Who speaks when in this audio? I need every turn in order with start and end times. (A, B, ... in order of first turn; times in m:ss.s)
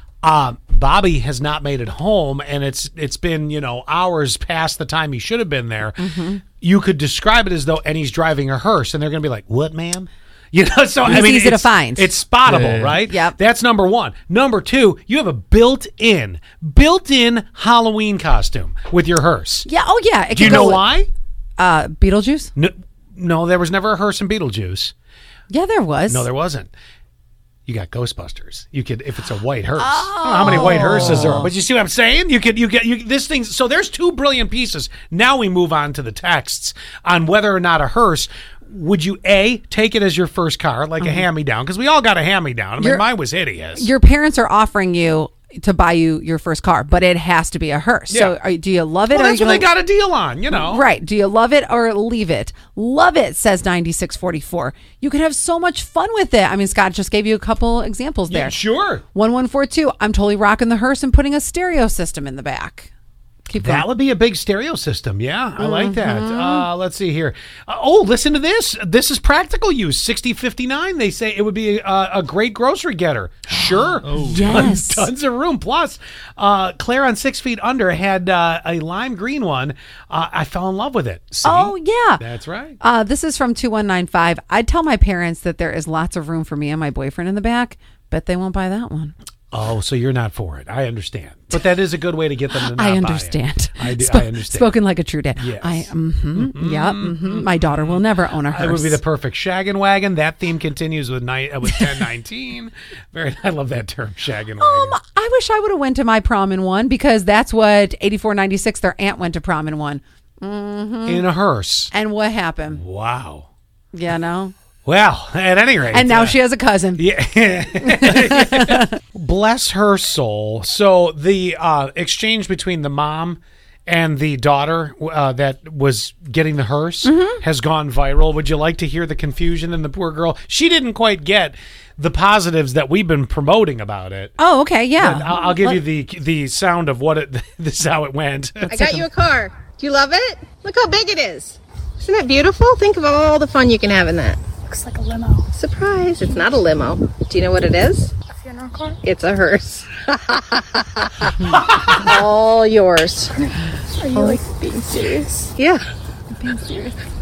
0:00.2-0:19.7 A
0:06.0-0:06.4 B
0:11.0-0:12.2 B
0:12.9-0:13.4 B
0:19.6-0:20.9 B
0:20.3-0:21.1 A
0:21.6-0:22.5 B
0:22.6-0:24.9 A
0:25.5-0:26.2 B
0:26.1-0:26.7 A
0:27.6-0:43.9 A
0:29.8-0:31.5 B
0:41.0-0:41.2 B
0:42.8-0:43.0 B
0:43.7-0:49.7 B
0:48.1-0:48.4 A
0:49.1-0:50.8 A
0:50.5-0:58.6 B
0:58.3-0:59.0 A
0:59.1-1:02.9 B
1:03.5-1:03.9 B
1:03.6-1:22.8 A
1:05.6-1:06.7 B
1:13.7-1:15.1 B
1:21.4-1:22.2 B
1:22.8-1:29.1 B
1:29.5-1:34.8 A
1:32.5-1:39.0 B
1:35.4-1:45.0 A
1:41.6-1:42.0 B
1:44.6-1:51.2 B
1:51.0-1:51.9 A
1:51.9-1:52.8 B
1:52.7-1:53.5 A
1:53.9-1:54.5 B
1:54.8-1:56.4 A
1:55.9-1:57.0 B
1:57.0-2:14.3 A
1:57.8-1:58.9 B
2:07.0-2:07.4 B
2:14.4-2:15.8 B
2:15.0-2:19.0 A
2:18.7-2:24.4 C
2:18.7-2:19.1 B
2:24.7-2:25.5 D
2:25.5-2:28.2 C
2:28.3-2:29.0 D
2:28.9-2:33.7 C
2:31.4-2:31.9 B
2:31.5-2:32.2 A
2:34.0-2:35.5 D
2:35.5-2:35.8 C
2:36.3-2:37.0 B